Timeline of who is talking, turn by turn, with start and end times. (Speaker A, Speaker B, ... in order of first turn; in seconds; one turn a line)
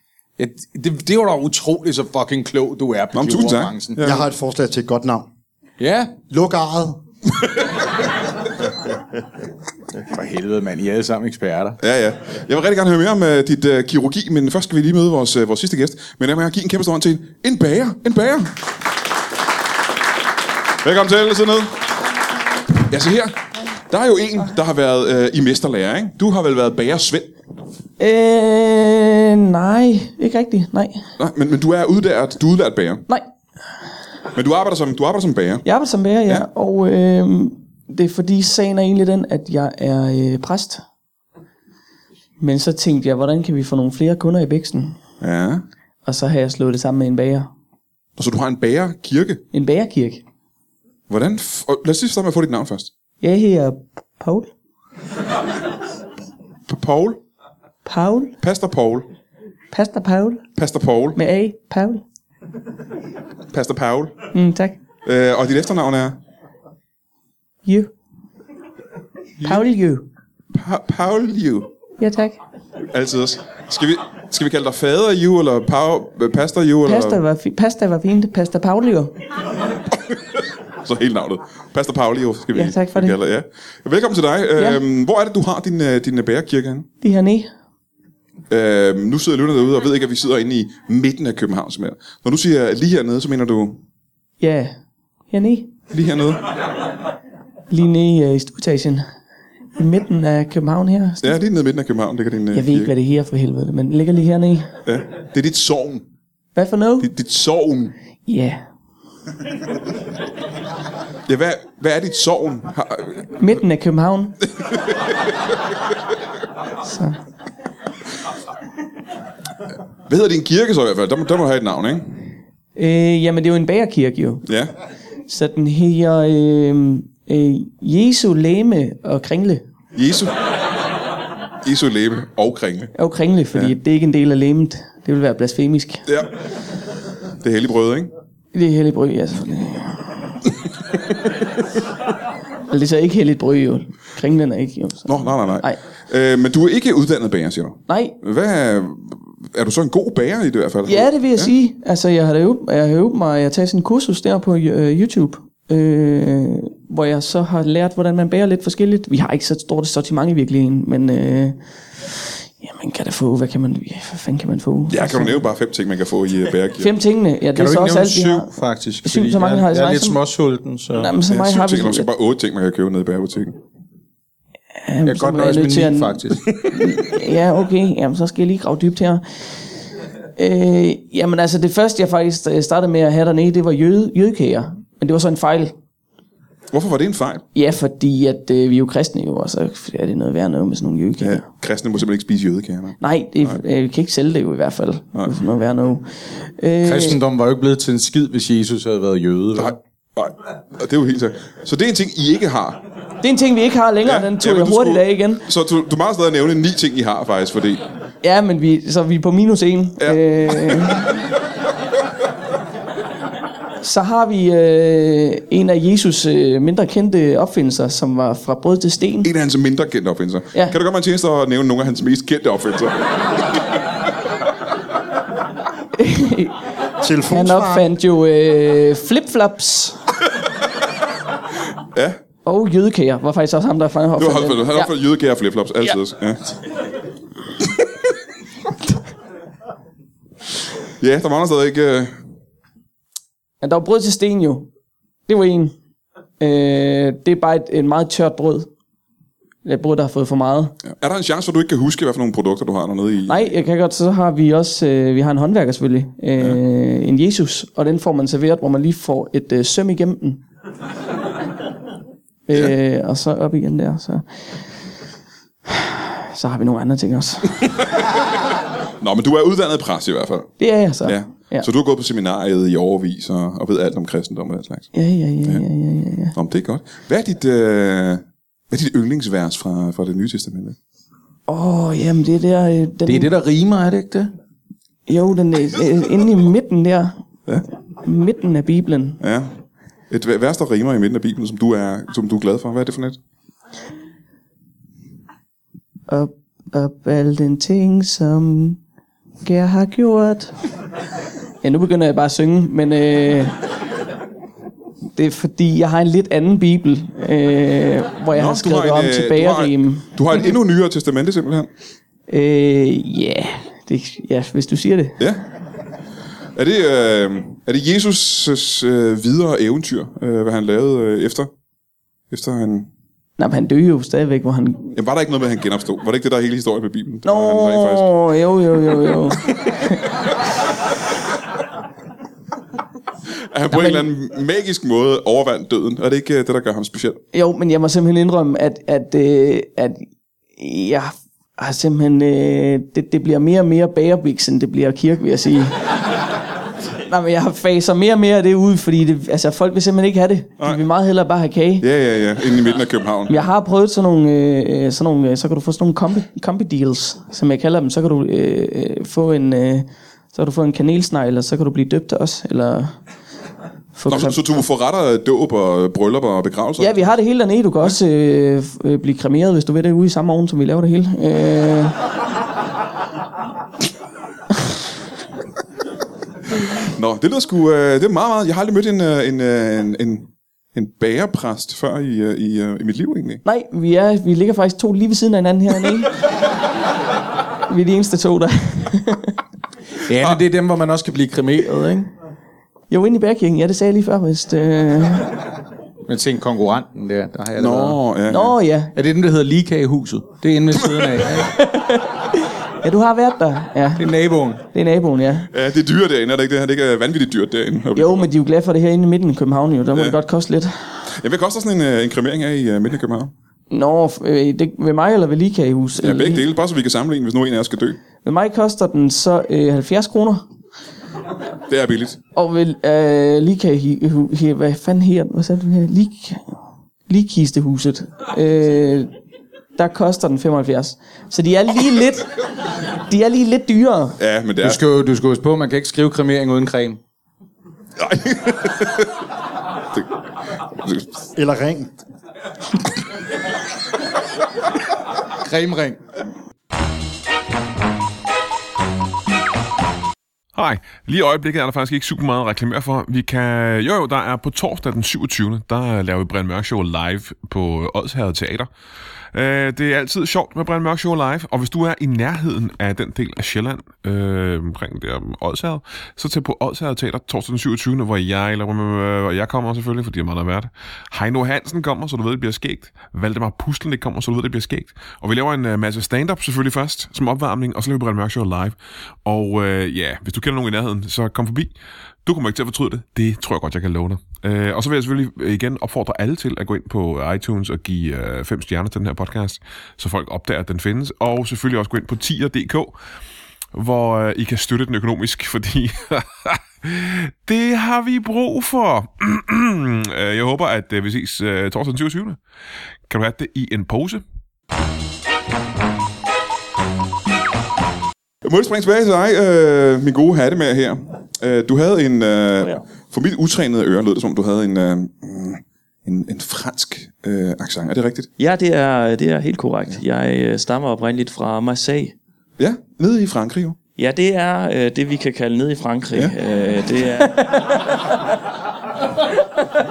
Speaker A: 0.4-4.0
Speaker B: 3.1-4.3
Speaker C: 4.0-5.3
Speaker A: 5.8-6.2
Speaker C: 6.3-7.0
Speaker A: 10.0-11.8
Speaker B: 11.8-18.6
Speaker B: 20.8-21.8
Speaker B: 22.7-27.4
Speaker D: 28.0-31.0
Speaker B: 31.2-33.0
Speaker B: 34.4-35.6
Speaker D: 35.6-40.8
Speaker D: 42.4-45.0
Speaker B: 45.2-45.6
Speaker D: 46.0-47.5
Speaker B: 48.2-49.4
Speaker D: 49.5-50.2
Speaker B: 51.1-52.9
Speaker D: 53.2-54.5
Speaker B: 56.7-57.2
Speaker D: 57.9-58.3
Speaker B: 58.4-59.1
Speaker D: 59.7-60.5
Speaker B: 60.6-61.2
Speaker D: 61.1-62.0
Speaker B: 63.5-64.2
Speaker D: 64.3-64.8
Speaker B: 65.0-66.2
Speaker D: 67.6-67.9
Speaker B: 69.4-69.6
Speaker D: 69.4-70.1
Speaker B: 70.5-71.7
Speaker D: 72.0-72.4
Speaker B: 72.9-77.2
Speaker D: 76.9-79.2
Speaker B: 80.8-86.9
Speaker D: 82.5-83.1
Speaker D: 87.0-87.5
Speaker B: 88.5-93.8
Speaker D: 94.4-94.8
Speaker D: 95.3-95.7
Speaker B: 95.9-96.5
Speaker D: 97.7-99.1
Speaker D: 99.8-101.3
Speaker B: 101.2-102.9
Speaker D: 102.5-104.7
Speaker B: 104.9-106.1
Speaker D: 106.6-107.1
Speaker B: 107.0-107.9
Speaker D: 108.3-108.6
Speaker B: 111.2-113.3
Speaker D: 113.4-114.4
Speaker D: 116.8-117.2
Speaker B: 120.1-122.2
Speaker D: 122.8-124.4
Speaker B: 124.5-124.7
Speaker D: 125.3-129.6
Speaker B: 129.9-130.3
Speaker B: 131.6-132.9
Speaker D: 133.0-136.1
Speaker B: 137.4-138.1
Speaker D: 138.5-140.1
Speaker D: 142.7-145.8
Speaker B: 145.1-151.5
Speaker D: 147.9-148.1
Speaker D: 150.9-165.4
Speaker B: 164.9-166.9
Speaker D: 166.8-168.5
Speaker A: 167.6-171.1
Speaker D: 169.0-170.2
Speaker D: 170.9-172.1
Speaker B: 171.3-173.6
Speaker D: 174.8-179.2
Speaker A: 175.0-176.5
Speaker D: 180.4-185.7
Speaker B: 186.7-187.4
Speaker D: 187.6-191.4
Speaker B: 191.2-193.6
Speaker D: 193.0-197.2
Speaker A: 196.8-199.8
Speaker B: 199.6-202.8
Speaker D: 203.2-205.4
Speaker B: 204.0-207.8
Speaker D: 208.2-211.1
Speaker B: 210.0-211.0
Speaker D: 213.8-219.3
Speaker B: 219.2-223.2
Speaker D: 226.0-226.6
Speaker C: 227.0-227.9
Speaker D: 227.3-230.0
Speaker B: 231.9-232.2
Speaker D: 232.4-234.9
Speaker B: 234.2-236.4
Speaker B: 241.0-242.2
Speaker D: 243.6-244.7
Speaker D: 245.3-245.7
Speaker D: 246.4-248.7
Speaker D: 249.6-250.7
Speaker B: 250.9-253.5
Speaker D: 253.3-260.4
Speaker D: 262.5-264.7
Speaker D: 265.7-267.8
Speaker B: 269.0-270.5
Speaker D: 270.6-271.7
Speaker B: 271.0-274.9
Speaker D: 274.9-276.4
Speaker B: 276.3-280.8
Speaker D: 281.5-283.3
Speaker A: 283.1-284.3
Speaker D: 285.1-287.2
Speaker D: 288.0-289.2
Speaker B: 289.2-289.6
Speaker B: 290.1-293.2
Speaker D: 296.1-298.8
Speaker D: 299.4-300.6
Speaker D: 301.6-303.6
Speaker D: 305.1-310.5
Speaker B: 308.3-311.7
Speaker D: 312.3-315.2
Speaker B: 316.6-321.5
Speaker B: 322.3-322.9
Speaker D: 323.4-324.9
Speaker B: 324.9-328.1
Speaker D: 327.2-330.1
Speaker B: 329.5-329.7
Speaker B: 333.5-337.2
Speaker D: 333.7-334.1
Speaker D: 337.3-345.8
Speaker D: 347.1-351.9
Speaker B: 351.8-353.5
Speaker D: 353.3-363.0
Speaker D: 363.9-364.4
Speaker B: 364.1-367.1
Speaker D: 366.8-372.0
Speaker B: 376.9-383.4
Speaker D: 383.4-386.2
Speaker D: 387.7-389.4
Speaker A: 390.0-392.1
Speaker D: 392.9-395.4
Speaker A: 396.1-398.0
Speaker B: 397.6-398.6
Speaker D: 398.3-398.9
Speaker A: 398.9-401.6
Speaker D: 401.5-404.1
Speaker A: 404.0-404.6
Speaker D: 404.6-405.5
Speaker B: 405.5-408.3
Speaker D: 407.9-411.0
Speaker B: 411.1-413.3
Speaker D: 413.7-416.4
Speaker B: 415.9-418.0
Speaker D: 418.2-420.4
Speaker B: 421.7-422.2
Speaker D: 422.4-426.5
Speaker D: 427.1-429.1
Speaker D: 429.8-432.4
Speaker D: 432.9-434.2
Speaker B: 434.2-434.8
Speaker A: 434.6-437.0
Speaker B: 438.0-439.1
Speaker B: 440.7-441.1
Speaker C: 441.4-441.9
Speaker A: 445.3-446.0
Speaker E: 450.6-458.7
Speaker E: 459.3-492.9
Speaker E: 493.7-502.4
Speaker E: 503.1-504.2
Speaker B: 508.4-518.3
Speaker F: 518.4-522.1
Speaker B: 522.6-523.8
Speaker F: 524.0-527.6